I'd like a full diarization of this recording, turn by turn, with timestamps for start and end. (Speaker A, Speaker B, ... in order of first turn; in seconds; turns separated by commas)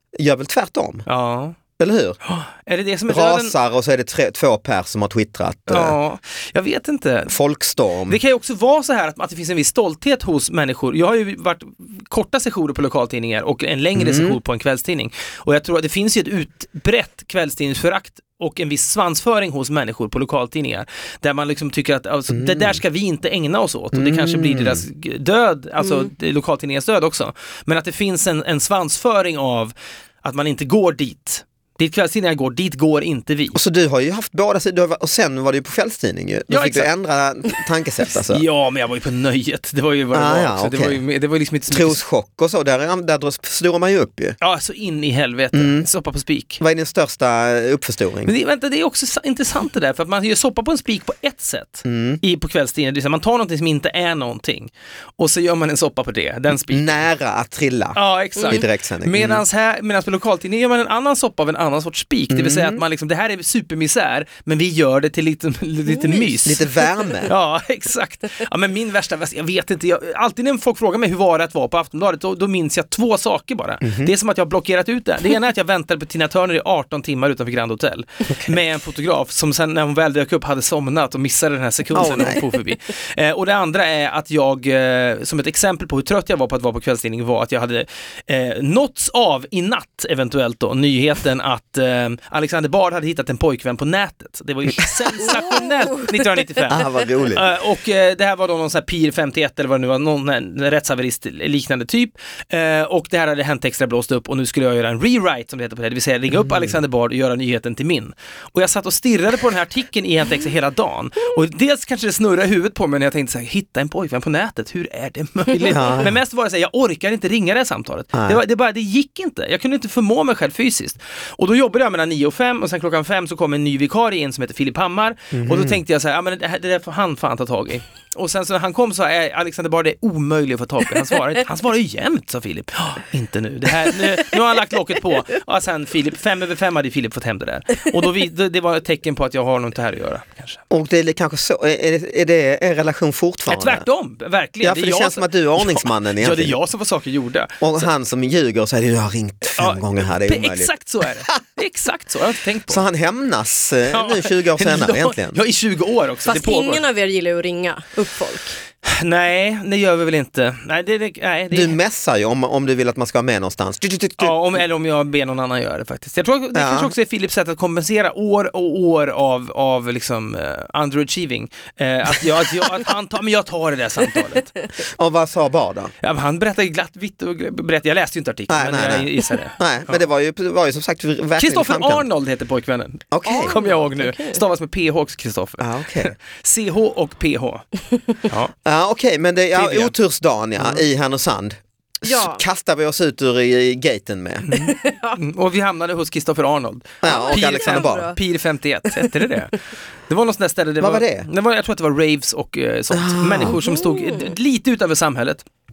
Speaker A: 0.1-1.0, Speaker B: 1.1-1.6, Speaker A: 1.8-2.2, Speaker B: 2.2-3.5, Speaker A: 3.1-6.0, Speaker B: 5.7-7.3, Speaker A: 7.3-8.2, Speaker B: 8.1-33.6, Speaker A: 13.9-14.4, Speaker A: 22.3-22.8, Speaker A: 23.9-24.8, Speaker A: 33.5-38.4, Speaker B: 36.5-36.9, Speaker B: 38.1-42.0, Speaker A: 40.1-41.0, Speaker A: 41.7-44.4, Speaker B: 44.4-46.6, Speaker A: 45.5-45.9, Speaker A: 46.6-48.3, Speaker B: 48.2-57.0, Speaker A: 51.8-52.2, Speaker A: 56.7-59.4, Speaker B: 57.9-66.7, Speaker A: 62.3-62.8, Speaker C: 65.9-66.3, Speaker A: 66.4-67.3, Speaker B: 67.2-140.6, Speaker A: 73.8-74.1, Speaker A: 81.9-82.5, Speaker A: 96.6-97.5, Speaker A: 115.7-116.1, Speaker A: 118.1-118.4, Speaker A: 125.3-125.8, Speaker A: 140.7-143.8, Speaker B: 143.5-147.8, Speaker A: 144.6-146.6, Speaker A: 147.6-150.7, Speaker B: 149.5-152.8, Speaker A: 152.7-155.4, Speaker B: 153.9-156.8, Speaker C: 156.2-158.6, Speaker B: 158.8-161.8, Speaker A: 161.5-164.3, Speaker B: 164.2-174.5, Speaker A: 166.5-166.9, Speaker A: 174.9-175.9, Speaker B: 176.0-180.0, Speaker A: 178.5-182.0, Speaker B: 181.4-187.7, Speaker A: 183.1-183.6, Speaker C: 183.2-184.4, Speaker A: 185.6-186.1, Speaker B: 188.2-188.5, Speaker A: 188.6-194.5, Speaker B: 189.5-189.9, Speaker B: 190.6-190.8, Speaker C: 192.0-192.4, Speaker B: 194.5-205.4, Speaker C: 194.5-195.2, Speaker A: 197.0-198.1, Speaker C: 197.0-198.1, Speaker A: 200.8-201.3, Speaker A: 202.9-203.6, Speaker C: 203.5-204.3